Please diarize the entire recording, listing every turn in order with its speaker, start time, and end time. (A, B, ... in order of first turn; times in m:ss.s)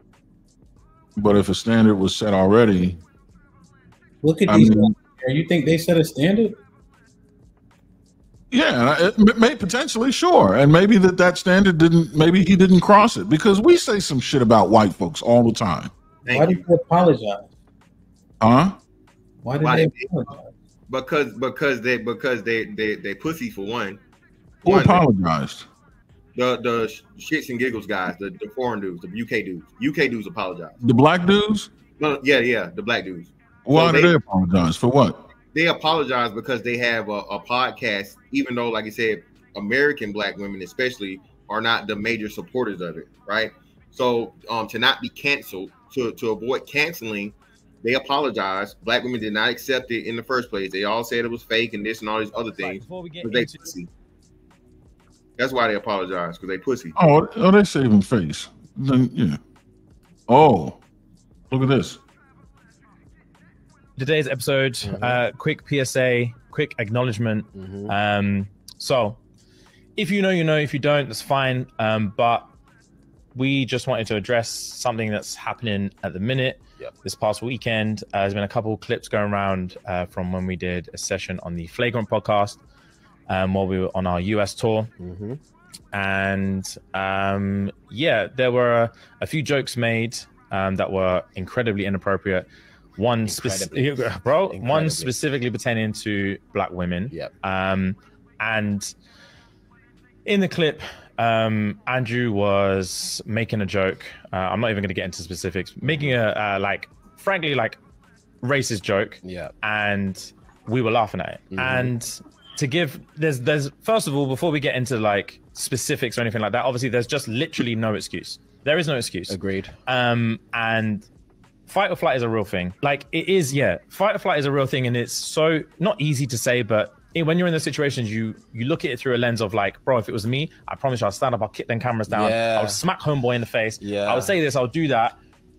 0:01.2-0:03.0 A
0:04.2-0:06.6 B
0:04.5-0:04.9 A
0:08.5-0:15.9 A
0:16.2-0:16.6 C
0:16.3-0:17.5 B
0:18.4-0:18.8 A
0:19.4-0:20.5 B
0:19.6-0:20.1 C
0:20.9-0:24.0 C
0:24.6-0:25.0 C
0:24.6-0:25.6 A
0:26.4-0:30.8 C
0:30.8-0:31.7 A
0:32.0-0:34.1 C
0:33.6-0:35.2 A
0:35.5-0:53.9 C
0:52.6-0:53.7 D
0:55.4-0:57.0 C
0:57.0-0:59.4 A
1:00.3-1:00.8 A
1:01.5-1:02.0 A
1:04.0-1:09.2 D
1:04.8-1:05.2 E
1:07.5-1:07.9 E
1:10.0-1:12.5 D
1:13.3-1:22.6 D
1:23.3-1:24.9 D
1:25.0-1:25.4 E
1:25.9-1:38.9 D
1:33.2-1:35.1 E
1:40.2-1:47.8 D
1:45.8-1:46.2 E
1:48.4-2:01.1 D
1:49.2-1:49.5 E
1:51.5-1:51.9 E
1:59.3-1:59.7 E
2:01.7-2:15.2 D
2:12.1-2:12.8 E
2:13.8-2:14.3 E